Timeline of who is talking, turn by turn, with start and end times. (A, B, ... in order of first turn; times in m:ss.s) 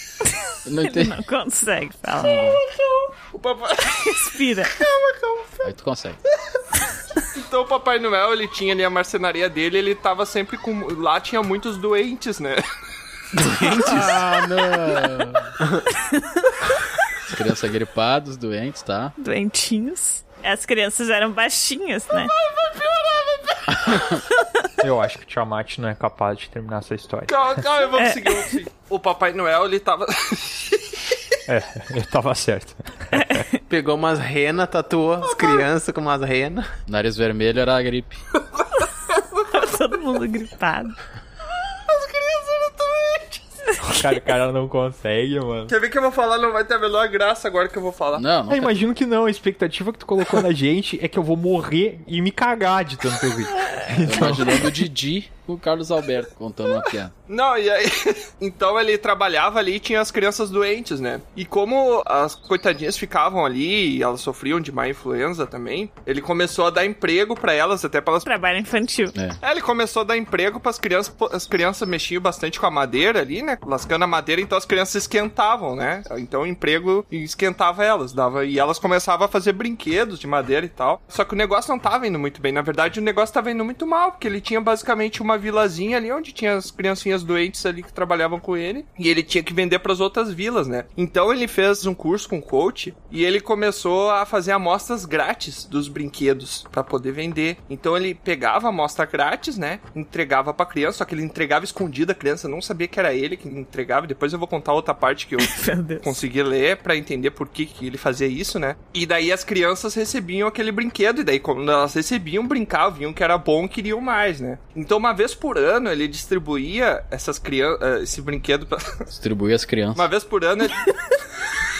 0:00.6-0:01.2 A
0:00.8-0:02.5 B
0:02.3-0:02.5 A
0:02.7-0:05.7 C
0:03.9-0:04.8 B
0:05.6-0:06.2 A
0:07.2-0:12.6 C
0:13.3-0:15.8 D
0:13.7-0:15.5 A
0:16.1-0:16.6 B
0:17.3-0:19.1 A
0:19.2-0:22.3 B
0:22.5-0:23.4 C
0:24.8-0:27.6 E
0:27.3-0:31.0 C
0:28.0-0:28.5 B
0:31.5-0:33.5 E
0:33.1-0:33.5 B
0:33.7-0:36.7 D
0:36.9-0:38.2 A
0:39.1-0:39.4 C
0:39.5-0:40.9 B
0:41.6-0:43.4 C
0:43.9-0:45.7 E
0:45.7-0:48.2 C
0:48.1-0:48.7 A
0:48.5-0:54.7 E
0:53.9-0:57.1 A
0:57.3-1:08.3 C
1:08.2-1:09.1 B
1:09.4-1:59.0 C
1:45.4-1:46.2 B
1:59.1-2:00.0 A
1:59.9-2:00.9 C